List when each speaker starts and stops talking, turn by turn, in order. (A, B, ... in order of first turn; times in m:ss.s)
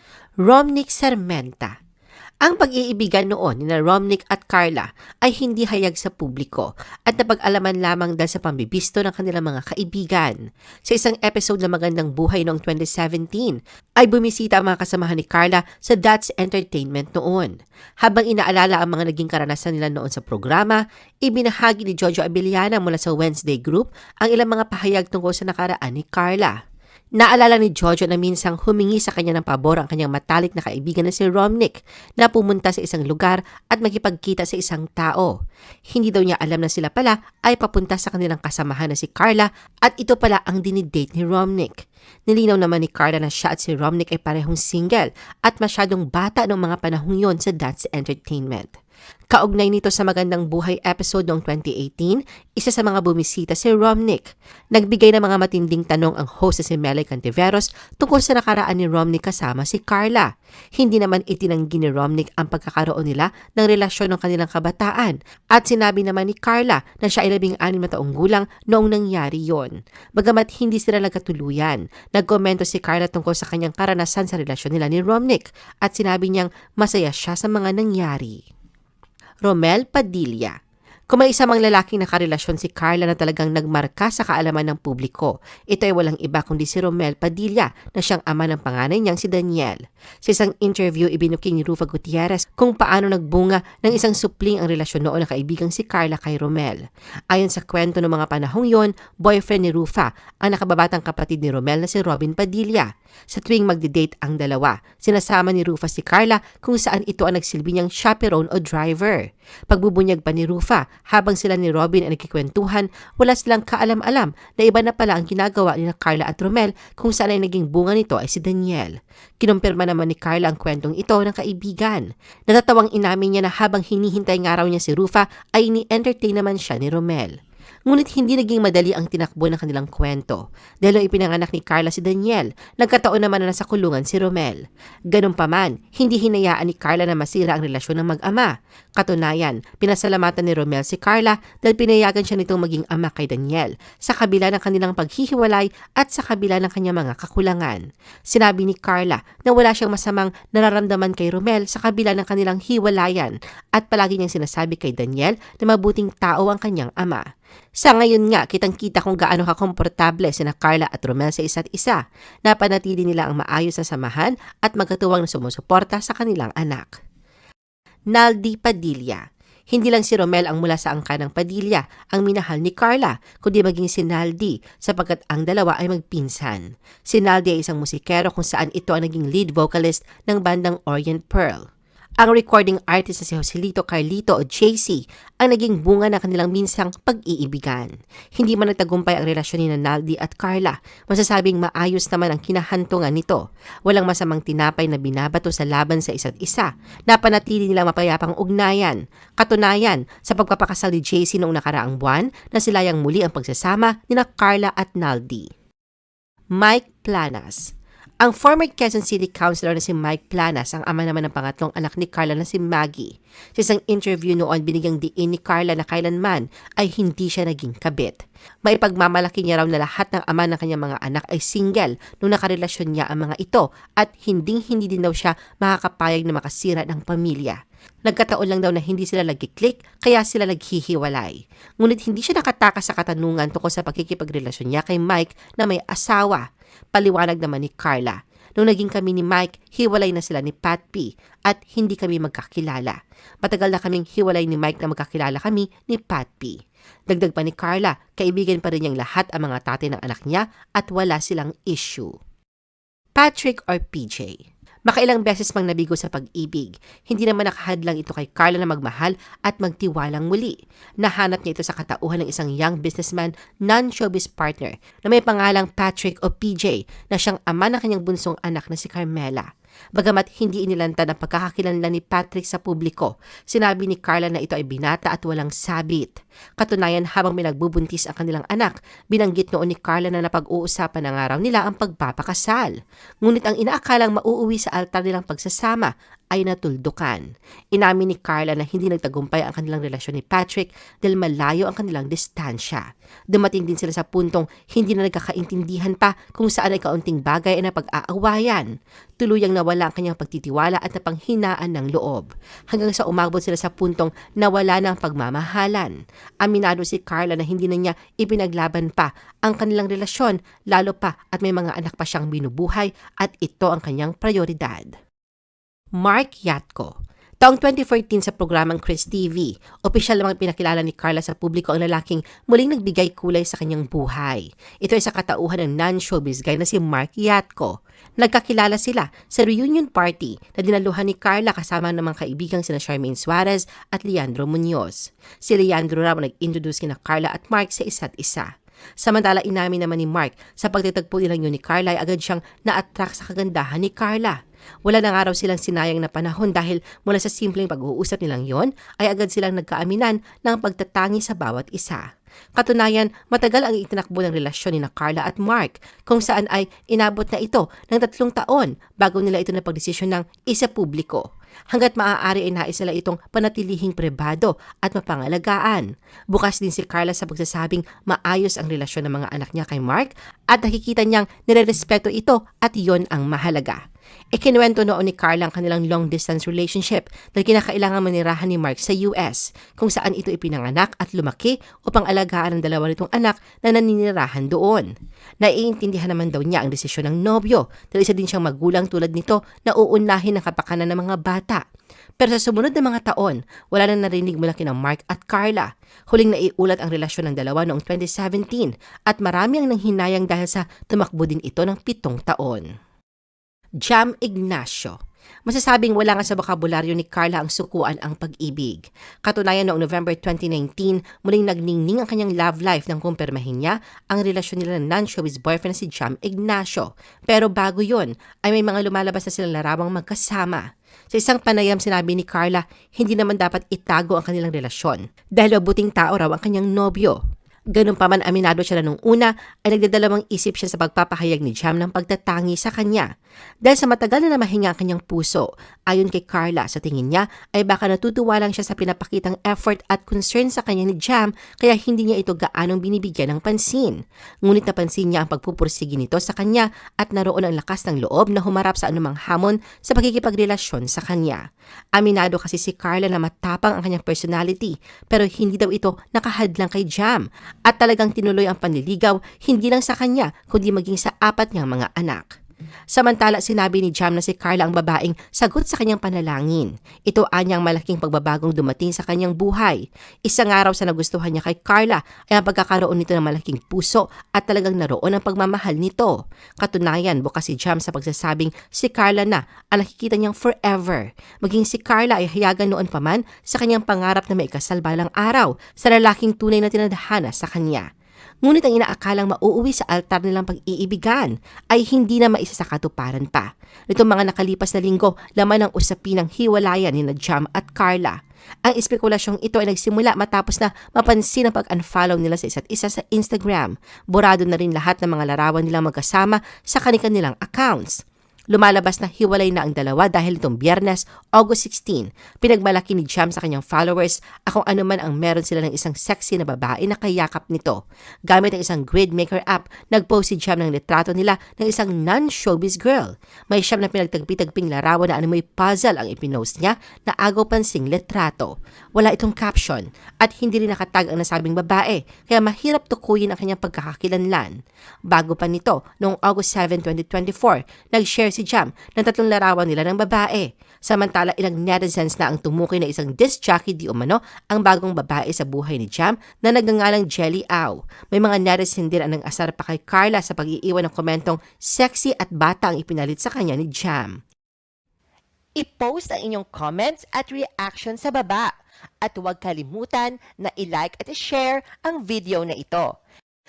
0:00.4-0:01.8 A
0:02.4-0:26.6 A
0:27.2-0:35.3 A
0:35.9-0:48.7 A
0:49.3-1:18.4 A
1:19.4-1:20.6 A
1:21.1-2:07.3 A
2:07.9-2:37.2 A
2:37.8-2:47.0 A
2:48.1-3:01.6 A
3:02.2-3:25.5 A
3:26.6-3:27.7 A
3:28.2-4:06.6 A
4:07.1-4:12.1 A
4:13.2-4:58.7 A
4:59.2-5:14.9 A
5:16.0-5:38.5 A
5:39.0-5:52.0 A
5:52.6-6:13.8 A
6:14.3-6:24.9 A
6:25.4-6:31.6 A
6:32.2-6:42.6 A
6:43.8-7:07.2 A
7:07.7-7:13.1 A
7:13.6-7:31.4 A
7:32.0-7:42.3 A
7:42.9-8:07.9 A
8:08.4-8:28.0 A
8:28.5-8:54.6 A
8:55.1-9:14.2 A
9:15.6-9:18.5 A
9:19.0-9:22.9 A